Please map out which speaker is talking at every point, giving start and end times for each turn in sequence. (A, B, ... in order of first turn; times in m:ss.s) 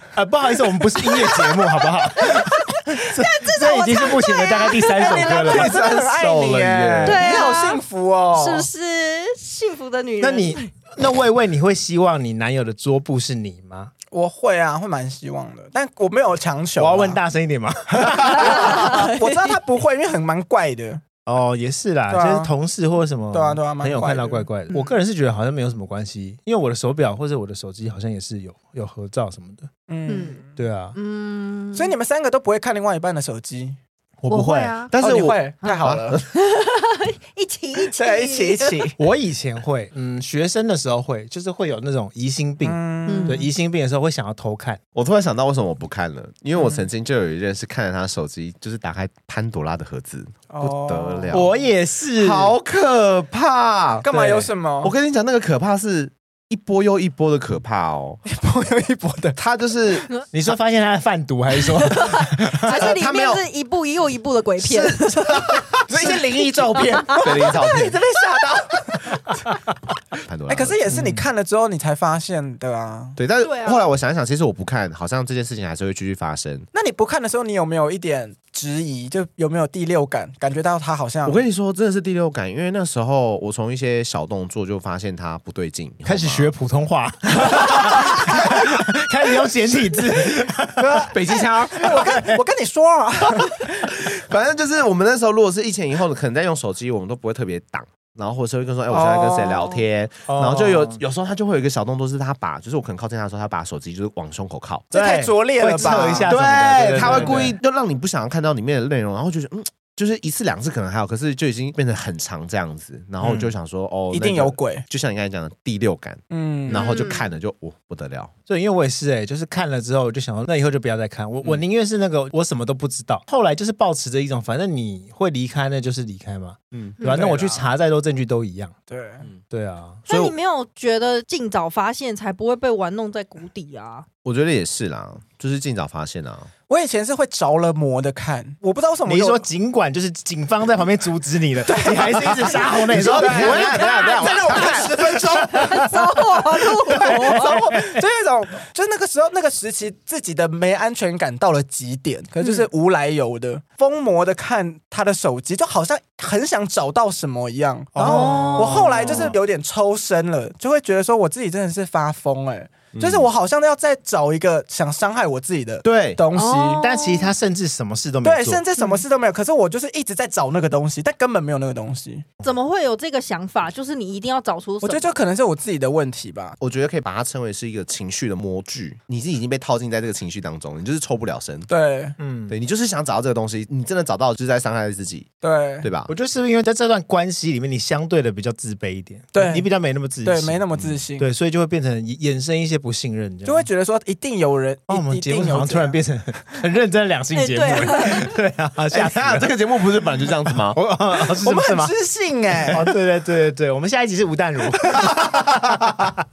0:00.1-0:05.7 A
0:01.0-0:05.7 B
0:04.9-0:08.7 C
0:05.4-0:07.3 D
0:07.0-0:07.8 B
0:08.3-0:10.7 B
0:10.2-0:13.9 A
0:14.1-0:17.2 C
0:16.8-0:18.8 A
0:18.0-0:21.0 C
0:18.2-0:19.6 B
0:21.2-0:29.7 A
0:22.1-0:22.5 C
0:23.3-0:24.5 C
0:29.9-0:30.5 C
0:30.1-0:30.4 B
0:30.6-0:31.0 A
0:30.9-0:31.9 B
0:31.7-0:33.8 C
0:34.2-0:34.8 A
0:34.3-0:34.9 B
0:34.9-0:36.3 D
0:35.0-0:36.2 C
0:35.6-0:38.8 B
0:37.9-0:39.0 C
0:39.0-0:44.8 A
0:42.6-0:43.4 C
0:43.0-0:43.4 B
0:44.9-0:51.5 D
0:50.5-0:51.4 C
0:51.3-0:52.6 A
0:52.2-0:58.2 D
0:54.0-0:54.9 C
0:58.2-0:59.4 C
0:59.4-1:00.1 D
1:00.3-1:03.0 A
1:01.6-1:05.7 B
1:02.7-1:03.4 D
1:04.6-1:06.2 D
1:05.9-1:09.4 C
1:06.4-1:07.6 B
1:07.2-1:08.0 D
1:10.2-1:10.8 D
1:10.5-1:13.2 C
1:10.9-1:11.2 A
1:13.2-1:16.6 D
1:13.4-1:13.9 B
1:16.7-1:21.4 C
1:21.2-1:26.5 D
1:26.0-1:31.1 A
1:27.6-1:28.1 D
1:30.8-1:33.9 C
1:31.1-1:31.9 D
1:31.8-1:32.4 A
1:33.9-1:44.9 D
1:38.9-1:39.8 C
1:40.3-1:41.0 A
1:44.9-1:47.5 C
1:44.9-1:47.6 A
1:45.8-1:58.3 D
1:53.2-1:53.5 A
1:54.1-1:54.8 C
1:56.3-1:56.9 C
1:56.7-1:57.3 B
1:58.5-2:08.7 A
2:06.7-2:07.0 D
2:07.0-2:07.7 C
2:08.9-2:09.2 C
2:09.5-2:10.0 A
2:10.1-2:10.3 D
2:10.1-2:14.0 B
2:14.2-2:16.5 D
2:16.7-2:19.4 C
2:19.0-2:24.2 A
2:21.6-2:26.0 C
2:22.7-2:25.4 D
2:23.6-2:27.6 B
2:25.4-2:26.0 A
2:26.8-2:46.9 C
2:27.0-2:27.8 A
2:37.9-2:39.4 A
2:38.0-2:39.0 B
2:42.9-2:43.3 D
2:45.8-2:46.2 D
2:46.3-2:47.3 B
2:46.8-2:48.6 A
2:48.2-2:52.2 C
2:48.8-2:49.0 B
2:52.4-2:55.1 B
2:54.8-2:56.6 C
2:56.6-3:01.7 D
3:01.7-3:02.2 C
3:02.2-3:02.5 A
3:02.5-3:05.3 D
3:05.4-3:05.9 C
3:05.8-3:06.1 D
3:06.1-3:10.6 A
3:09.3-3:09.6 C
3:10.2-3:11.3 C
3:11.2-3:13.7 A
3:13.4-3:16.0 C
3:14.9-3:19.5 A
3:17.3-3:18.3 B
3:18.9-3:20.8 D
3:20.5-3:21.9 A
3:21.4-3:22.8 C
3:22.7-3:26.1 A
3:25.1-3:26.1 D